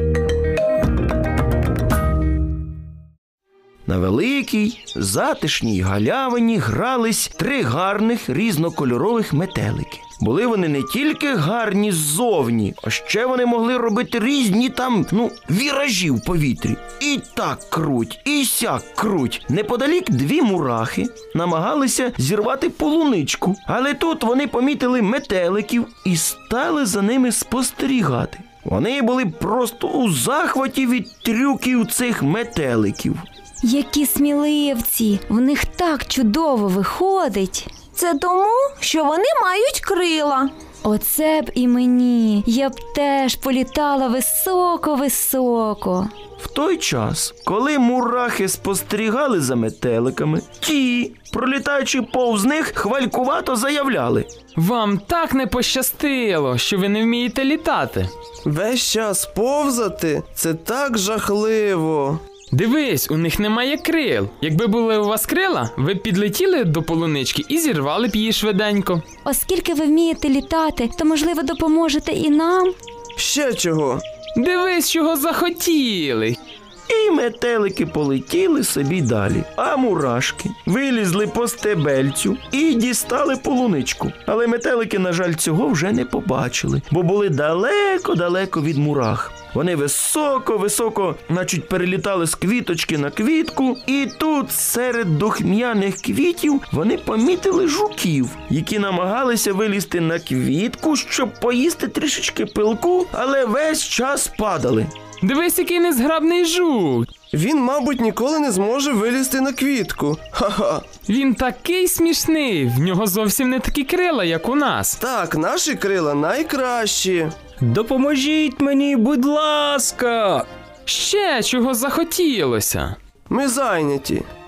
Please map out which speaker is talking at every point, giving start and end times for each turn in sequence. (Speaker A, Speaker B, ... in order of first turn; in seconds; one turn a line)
Speaker A: 3.9-33.2
Speaker B: 33.6-37.8
Speaker C: 37.9-40.5
Speaker B: 40.8-46.1
Speaker A: 46.4-54.3
Speaker D: 54.6-58.1
Speaker E: 58.5-62.2
Speaker D: 62.5-69.0
Speaker B: 69.2-72.8
Speaker E: 73.2-74.0
Speaker D: 74.4-76.4
Speaker A: 76.9-104.9
Speaker D: 105.2-107.1
Speaker E: 107.3-110.8
Speaker D: 111.1-115.0
Speaker E: 115.0-117.3
Speaker F: 117.6-120.5
Speaker D: 120.9-123.0
Speaker E: 123.3-124.3